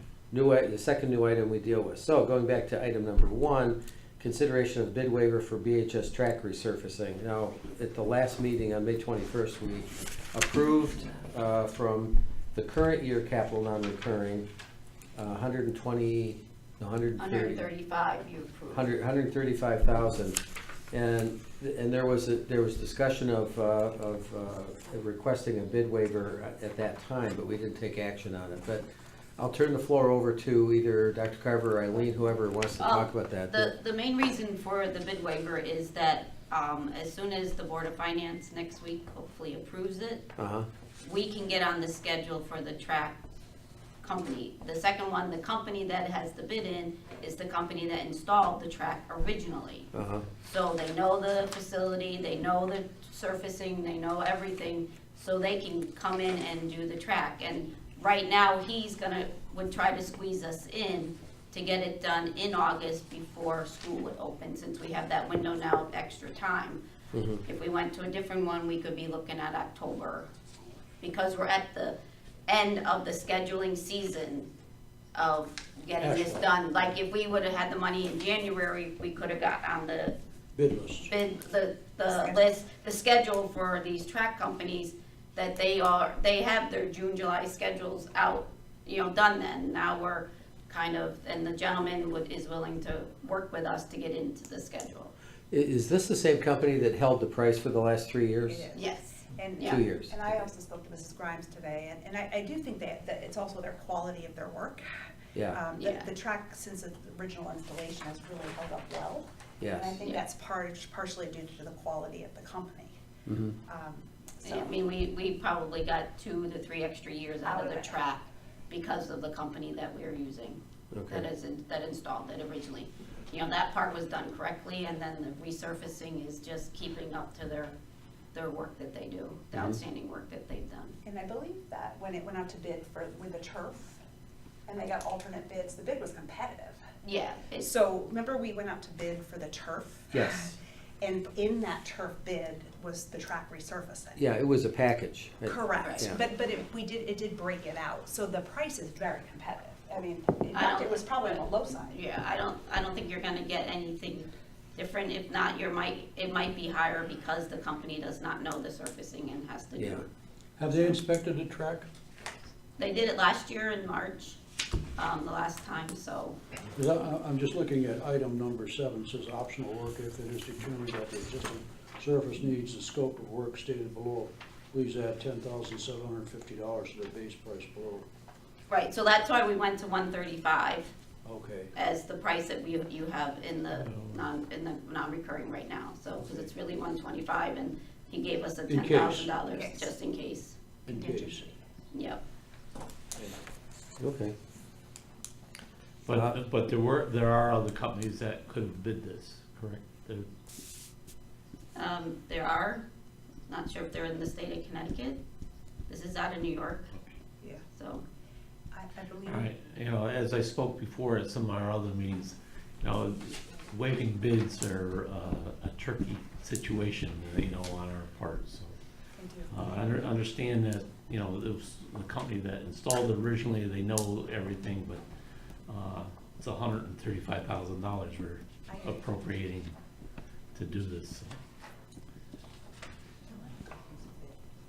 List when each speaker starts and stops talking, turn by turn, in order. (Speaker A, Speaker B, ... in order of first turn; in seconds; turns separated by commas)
Speaker A: 0.3-14.5, Speaker A: 15.2-17.7, Speaker B: 17.2-18.9, Speaker A: 18.7-33.7, Speaker B: 32.8-40.3, Speaker A: 40.4-40.7, Speaker B: 41.0-43.2, Speaker B: 44.0-49.9, Speaker A: 49.9-50.3, Speaker B: 50.4-66.8, Speaker A: 67.1-67.4, Speaker B: 67.5-70.3, Speaker B: 71.0-74.5, Speaker B: 75.1-80.2, Speaker C: 76.0-76.4, Speaker C: 80.5-81.1, Speaker B: 81.0-95.1, Speaker D: 82.1-82.4, Speaker A: 95.5-98.7, Speaker D: 98.5-104.8, Speaker B: 98.7-99.8, Speaker A: 99.6-100.2, Speaker D: 105.5-113.0, Speaker B: 105.8-106.1, Speaker A: 109.6-110.0, Speaker A: 113.3-113.6, Speaker D: 113.7-114.8, Speaker B: 114.4-127.7, Speaker D: 117.4-118.0, Speaker A: 120.9-121.3, Speaker B: 128.3-131.0, Speaker D: 131.0-134.0, Speaker D: 134.7-136.8, Speaker B: 137.0-137.7, Speaker D: 137.6-144.2, Speaker A: 140.1-140.5, Speaker A: 144.2-146.2, Speaker D: 145.5-151.9, Speaker B: 145.8-146.1, Speaker B: 150.5-160.1, Speaker A: 159.8-160.1, Speaker C: 160.6-161.9, Speaker B: 162.8-164.4, Speaker B: 165.0-166.4, Speaker C: 166.7-178.1, Speaker B: 178.7-180.9, Speaker C: 181.2-181.7, Speaker B: 181.8-190.6, Speaker E: 183.7-184.2, Speaker C: 188.7-189.3, Speaker D: 189.5-189.9, Speaker C: 190.9-191.4, Speaker D: 190.9-191.6, Speaker B: 191.9-192.2, Speaker C: 193.2-193.4, Speaker A: 194.0-194.3, Speaker E: 196.1-200.3, Speaker B: 201.8-202.8, Speaker B: 203.5-205.2, Speaker B: 205.9-206.9, Speaker B: 207.8-208.1, Speaker D: 208.7-209.5, Speaker E: 209.3-218.8, Speaker D: 219.2-219.5, Speaker E: 219.5-225.0, Speaker E: 225.7-229.8, Speaker D: 228.7-229.0, Speaker E: 230.6-231.4, Speaker D: 233.3-234.4